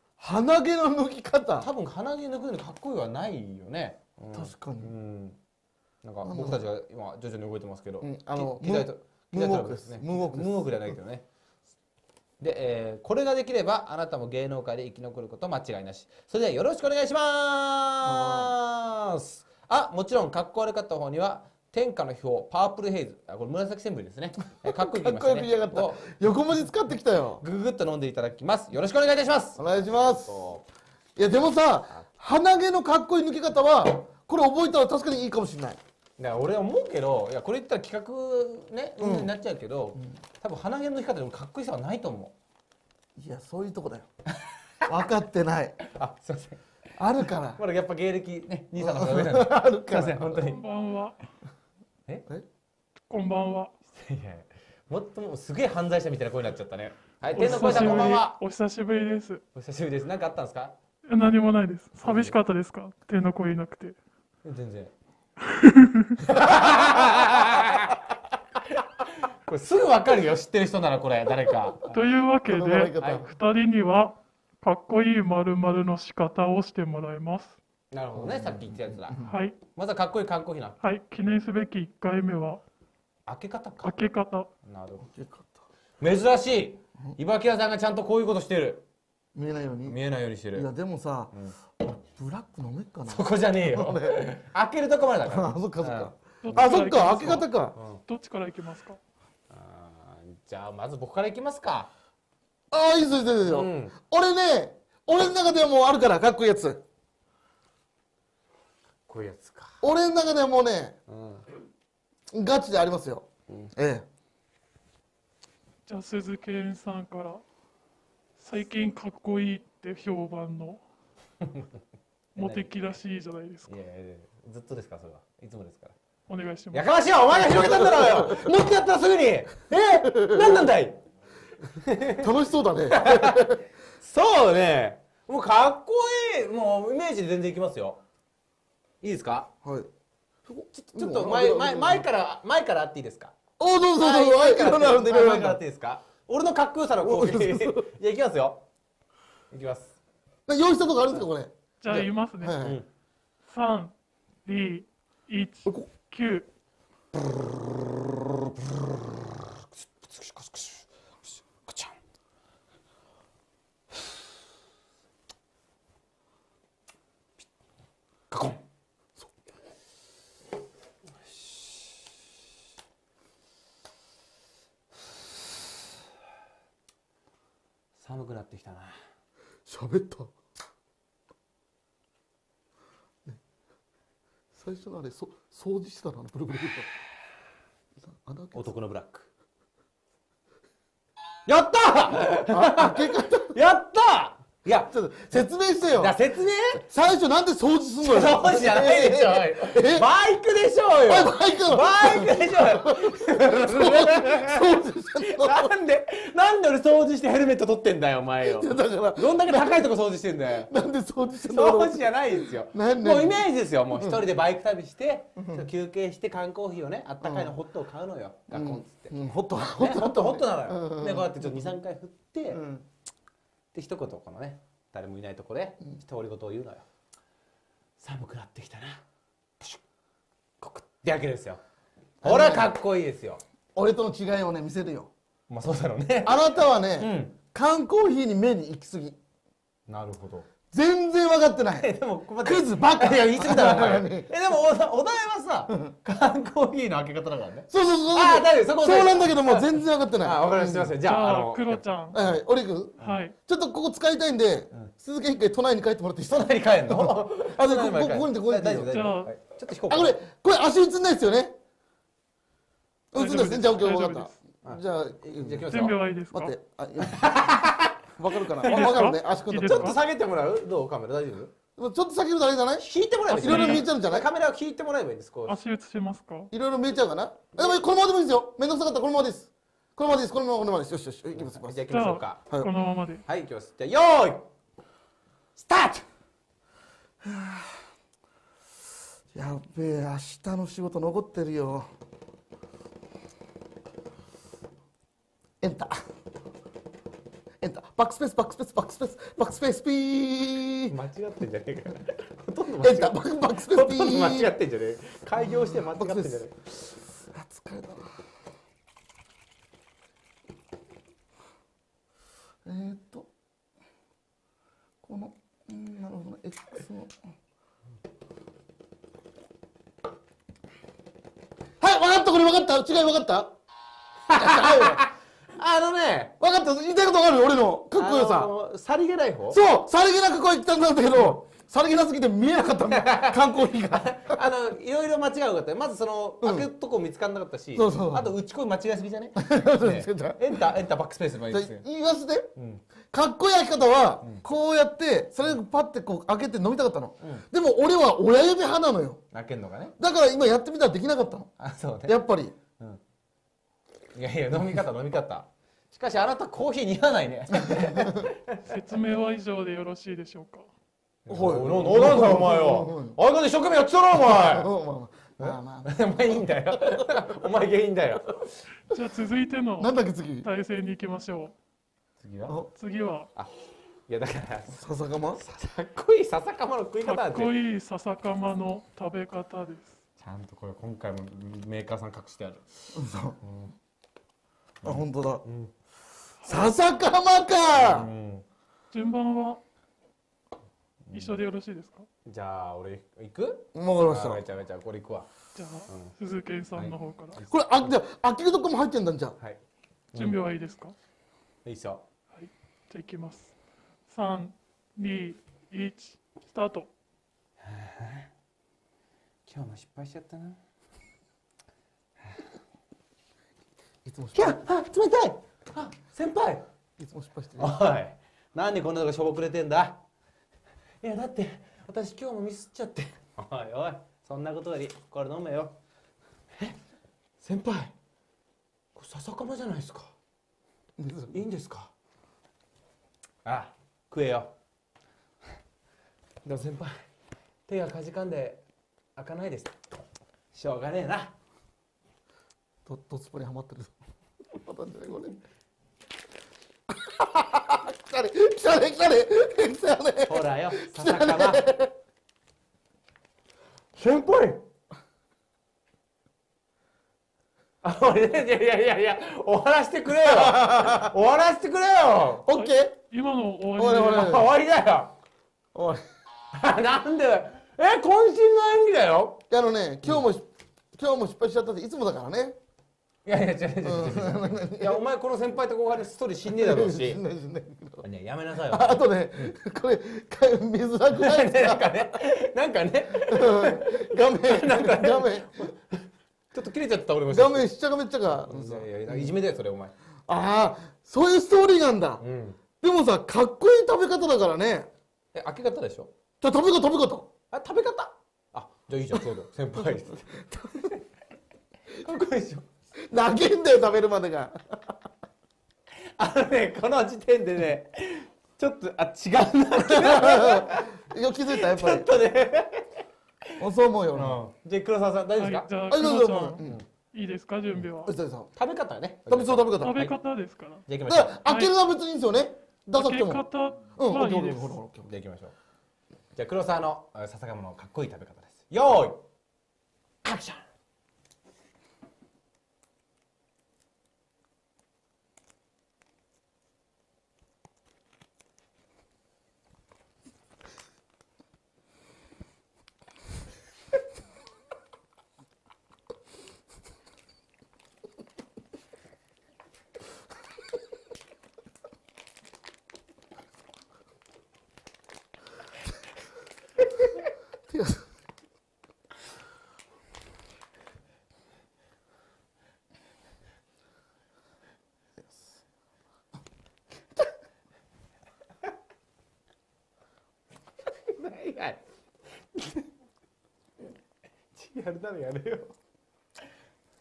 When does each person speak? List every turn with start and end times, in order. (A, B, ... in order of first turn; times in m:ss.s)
0:00.2-0:01.7 A
0:01.6-0:05.4 B
0:04.3-0:04.9 A
0:06.0-0:11.3 B
0:06.2-0:06.6 A
0:08.0-0:10.8 A
0:12.4-0:26.1 B
0:18.0-0:18.5 A
0:24.6-0:27.4 A
0:27.4-0:30.6 B
0:29.6-0:30.3 A
0:31.2-0:35.8 A
0:36.2-0:42.4 B
0:39.0-0:39.3 A
0:43.2-0:44.1 A
0:44.4-0:44.8 B
0:44.9-0:45.8 A
0:45.8-0:46.6 B
0:47.0-0:47.6 A
0:47.6-0:50.6 B
0:48.8-0:50.4 A
0:50.4-0:51.2 C
0:53.1-0:53.7 C
0:53.9-0:58.4 B
0:57.3-0:59.4 C
0:59.5-1:00.8 B
1:01.1-1:04.0 C
1:02.0-1:02.4 B
1:04.4-1:04.9 B
1:05.4-1:06.2 C
1:06.2-1:08.1 B
1:08.6-1:12.0 B
1:11.9-1:17.6 C
1:12.5-1:13.3 A
1:17.9-1:20.8 B
1:18.2-1:19.3 A
1:19.3-1:19.6 C
1:20.8-1:22.6 C
1:23.3-1:24.0 B
1:23.8-1:24.5 C
1:24.6-1:25.1 B
1:25.1-1:25.6 A
1:26.0-1:28.8 B
1:29.4-1:30.0 A
1:29.9-1:30.7 B
1:30.5-1:34.2 A
1:33.1-1:36.7 B
1:35.2-1:37.8 A
1:36.4-1:37.5 C
1:37.8-1:38.0 B
1:38.0-1:39.0 C
1:39.5-1:41.9 B
1:42.7-1:46.8 A
1:43.4-1:43.9 B
1:49.1-1:49.8 B
1:49.8-1:51.0 A
1:51.1-1:51.4 B
1:52.3-1:54.0 A
1:55.9-1:57.4 C
1:58.4-2:00.8 C
2:01.4-2:01.7 B
2:02.4-2:03.7 C
2:02.4-2:02.8 B
2:03.7-2:06.0 B
2:06.3-2:06.9 C
2:06.7-2:11.0 B
2:07.5-2:08.5 A
2:10.0-2:10.6 A
2:11.7-2:12.3 B
2:12.2-2:13.6 A
2:12.9-2:18.0 B
2:19.0-2:19.5 B
2:19.6-2:19.9 A
2:20.5-2:22.0 A
2:20.7-2:23.4 B
2:23.6-2:25.6 A
2:24.0-2:28.6 B
2:27.0-2:27.9 A
2:29.5-2:30.0 B
2:30.5-2:32.8 A
2:31.8-2:32.6 C
2:32.6-2:32.9 B
2:33.5-2:33.9 C
2:34.4-2:36.5 C
2:39.8-2:40.8 B
2:41.5-2:42.0 B
2:48.3-2:48.6 B
2:58.0-2:59.0 B
2:59.7-3:00.3 A
3:04.6-3:06.9 A
3:08.0-3:08.7 A
3:08.5-3:09.3 B
3:11.5-3:14.9 B
3:12.5-3:13.6 A
3:14.7-3:16.2 A
3:15.9-3:16.8 B
3:16.8-3:20.1 A
3:18.0-3:30.7 B
3:21.1-3:25.7 A
3:28.4-3:29.8 A
3:30.7-3:33.4 A
3:31.4-3:42.6 B
3:35.4-3:35.6 A
3:37.2-3:37.5 A
3:38.5-3:41.5 A
3:42.5-3:42.8 A
3:43.7-3:46.8 B
3:48.0-3:49.0 B
3:50.6-3:51.6 B
3:52.2-3:53.4 B
3:52.2-3:52.7 A
3:53.8-3:55.1 A
3:55.5-3:56.4 B
3:56.2-3:59.2 A
3:57.0-3:57.4 B
3:59.9-4:00.5 B
4:00.7-4:01.9 A
4:01.8-4:11.8 B
4:02.4-4:04.3 A
4:07.7-4:11.0 A
4:11.0-4:12.2 C
4:12.1-4:18.9 A
4:13.0-4:13.4 C
4:16.2-4:20.2 B
4:18.9-4:19.3 C
4:19.9-4:21.6 A
4:23.1-4:25.7 A
4:23.1-4:24.3 C
4:24.6-4:26.0 B
4:25.7-4:26.5 C
4:26.3-4:27.4 A
4:27.0-4:28.0 B
4:28.2-4:30.0 A
4:28.6-4:30.0 C
4:28.6-4:31.5 B
4:31.8-4:34.3 A
4:32.8-4:35.6 B
4:33.3-4:33.8 C
4:35.5-4:36.5 C
4:36.5-4:41.9 A
4:41.4-4:42.4 B
4:41.9-4:43.2 C
4:43.3-4:44.5 B
4:45.6-4:46.0 B
4:47.2-4:47.8 A
4:49.3-4:51.9 A
4:55.6-4:56.0 A
4:57.6-5:00.9 A
5:00.9-5:06.7 B
5:02.8-5:04.5 A
5:05.4-5:06.4 A
5:07.3-5:08.1 A
5:12.6-5:13.3 A
5:15.0-5:17.2 A
5:21.8-5:23.5 A
5:24.3-5:26.3 B
5:24.3-5:25.0 A
5:26.4-5:28.5 A
5:28.0-5:29.6 B
5:29.5-5:34.4 A
5:32.9-5:41.8 B
5:37.8-5:38.3 A
5:39.4-5:40.6 A
5:41.5-5:42.5 A
5:42.6-5:42.8 B
5:43.1-5:49.2 A
5:49.3-5:50.0 B
5:50.0-5:51.5 A
5:51.6-5:52.2 B
5:52.0-5:52.6 A
5:54.1-5:58.7 B
5:57.6-5:58.2 A
5:58.7-6:00.7 C
6:01.3-6:04.7 B
6:01.3-6:03.2 A
6:04.2-6:06.0 A
6:05.4-6:08.6 B
6:08.9-6:11.5 C
6:09.8-6:10.5 A
6:12.2-6:12.6 B
6:12.7-6:13.3 C
6:14.1-6:14.8 B
6:14.7-6:15.4 A
6:15.4-6:17.6 B
6:17.0-6:20.0 C
6:20.2-6:22.6 B
6:22.9-6:23.4 A
6:23.4-6:23.8 B
6:24.8-6:25.4 A
6:24.8-6:25.7 B
6:26.4-6:26.7 C
6:26.4-6:28.1 A
6:27.7-6:28.4 B
6:28.9-6:29.6 C
6:31.1-6:31.4 B
6:31.1-6:32.1 C
6:32.2-6:35.3 B
6:33.7-6:34.4 A
6:35.6-6:37.4 C
6:36.8-6:37.9 B
6:37.5-6:39.4 A
6:40.1-6:40.4 B
6:40.2-6:41.0 C
6:41.6-6:42.0 B
6:42.3-6:43.5 C
6:44.1-6:46.9 C
6:47.6-6:48.3 B
6:49.5-6:50.6 B
6:54.0-6:54.6 A
6:54.4-6:56.7 B
6:57.0-6:57.8 A
6:57.6-7:00.0 B
7:01.0-7:05.8 B
7:07.4-7:07.9 B
7:09.0-7:10.1 B
7:11.0-7:11.3 A
7:11.3-7:11.9 B
7:13.4-7:14.5 B
7:16.4-7:17.0 B
7:17.7-7:18.6 B
7:19.2-7:19.8 B
7:20.5-7:21.3 B
7:22.9-7:23.9 A
7:24.5-7:25.4 A
7:26.9-7:31.9 A
7:30.3-7:31.7 B
7:34.0-7:34.6 B
7:37.8-7:42.4 B
7:40.3-7:41.1 A
7:42.4-7:43.0 A
7:42.6-7:44.4 C
7:43.8-7:44.5 A
7:44.0-7:45.1 B
7:45.8-7:46.0 A
7:46.5-7:49.4 B
7:49.5-7:52.6 A
7:53.2-7:57.2 B
7:53.8-7:55.0 A
7:56.6-7:58.0 A
7:58.0-7:59.5 B
7:58.7-8:02.1 A
8:01.1-8:07.7 B
8:03.3-8:05.7 A
8:07.3-8:09.3 A
8:08.4-8:09.9 B
8:10.3-8:12.2 A
8:12.2-8:12.6 B
8:12.8-8:14.9 A
8:15.3-8:16.1 B
8:16.4-8:17.3 A
8:17.5-8:21.0 B
8:20.5-8:20.9 A
8:22.0-8:22.7 B
8:23.1-8:24.8 A
8:26.0-8:30.9 B
8:29.8-8:32.1 A
8:31.5-8:33.0 B
8:33.6-8:34.4 A
8:34.2-8:35.7 B
8:35.4-8:36.6 C
8:35.9-8:36.8 A
8:37.1-8:38.1 C
8:38.0-8:38.5 A
8:38.6-8:40.2 B
8:39.3-8:40.0 A
8:39.8-8:40.9 C
8:40.9-8:41.4 B
8:41.1-8:43.4 A
8:41.4-8:41.7 C
8:42.9-8:44.8 C
8:44.0-8:45.1 A
8:45.0-8:45.5 B
8:46.4-8:49.2 B
8:50.2-8:50.6 B
9:17.7-9:18.0 A
9:30.9-9:31.8 B
9:32.5-9:32.9 B
9:34.6-9:35.7 B